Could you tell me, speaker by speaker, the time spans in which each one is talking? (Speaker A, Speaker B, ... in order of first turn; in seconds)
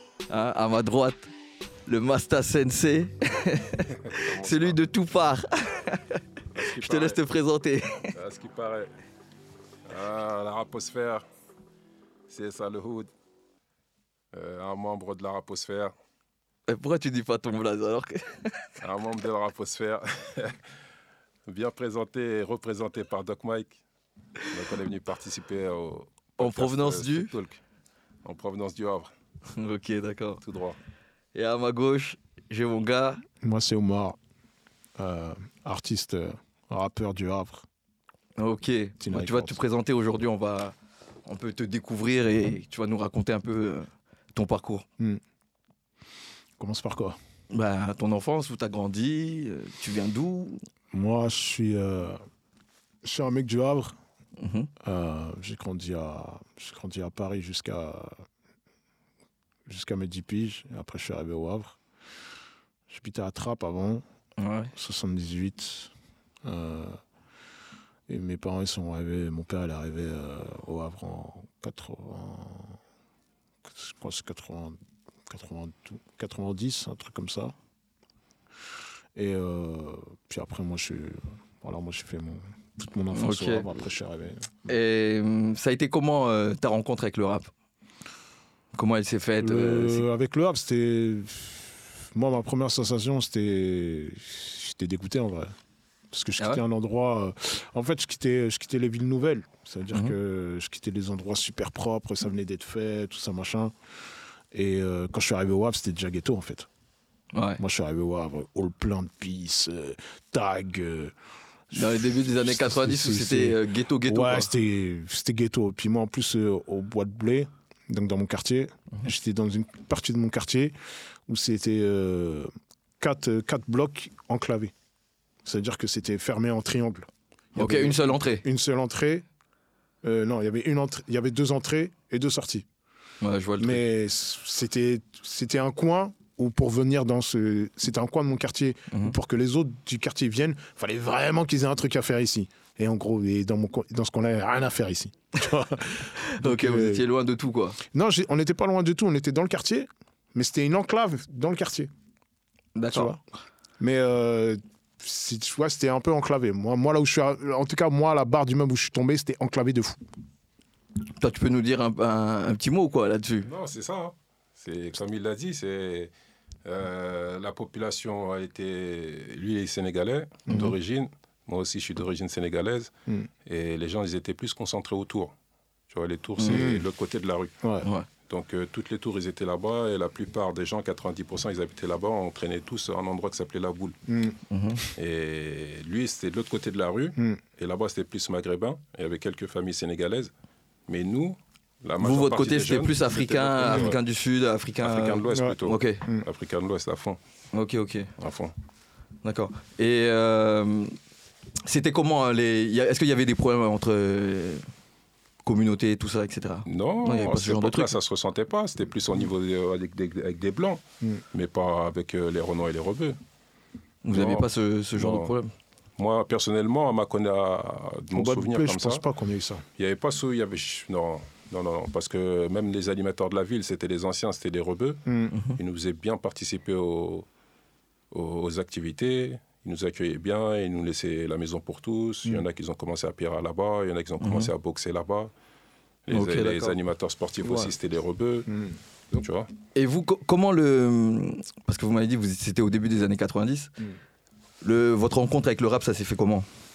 Speaker A: 0.3-1.3, 1.9-8.2, 16.7-18.7, 26.4-27.3, 29.5-30.4, 31.3-33.2, 38.4-40.8, 41.3-44.9, 47.5-50.6, 54.4-54.7, 64.4-64.7, 83.1-83.7, 84.7-87.5, 88.7-90.0, 107.3-107.6, 111.7-114.5, 127.6-128.4, 133.2-133.8, 146.2-147.8, 152.8-153.2, 161.2-163.5, 176.4-176.6, 177.8-178.1, 184.5-184.8, 192.0-196.0, 197.5-198.1, 199.2-200.9, 201.6-204.7, 205.4-207.9, 214.0-215.5, 225.3-225.6, 234.2-234.5, 236.1-236.7, 239.7-243.7, 244.6-246.5
Speaker B: 4.1-4.8, 6.5-7.2, 8.2-8.9, 9.9-11.2, 12.3-13.1, 14.3-15.9, 18.8-20.6, 21.5-23.8, 24.5-27.6, 28.2-29.1, 30.4-30.8, 163.4-166.1, 166.6-172.9, 173.4-175.3, 175.9-177.5, 178.2-184.0, 184.9-190.3, 190.9-193.9, 194.8-197.2, 198.2-198.5, 206.7-213.2, 214.1-215.3, 216.0-219.0, 219.8-225.0, 225.5-227.2, 228.1-235.3, 236.1-238.5, 239.1-239.5
Speaker C: 33.4-34.2, 35.0-37.7, 39.0-39.6, 46.6-47.2, 50.9-52.2, 53.0-54.0, 54.8-58.2, 59.7-61.8, 62.9-64.0, 64.7-65.9, 66.4-67.0, 68.1-72.8, 73.7-77.5, 79.2-84.5, 89.4-95.5, 96.1-103.7, 104.5-106.7, 107.6-111.1, 111.7-120.8, 121.3-124.7, 125.4-129.2, 130.0-132.7, 133.6-147.0, 147.9-151.9, 152.9-153.2, 153.8-160.0, 170.5-170.7, 176.5-176.8, 184.1-184.3, 195.3-196.2, 218.1-219.6, 225.1-225.3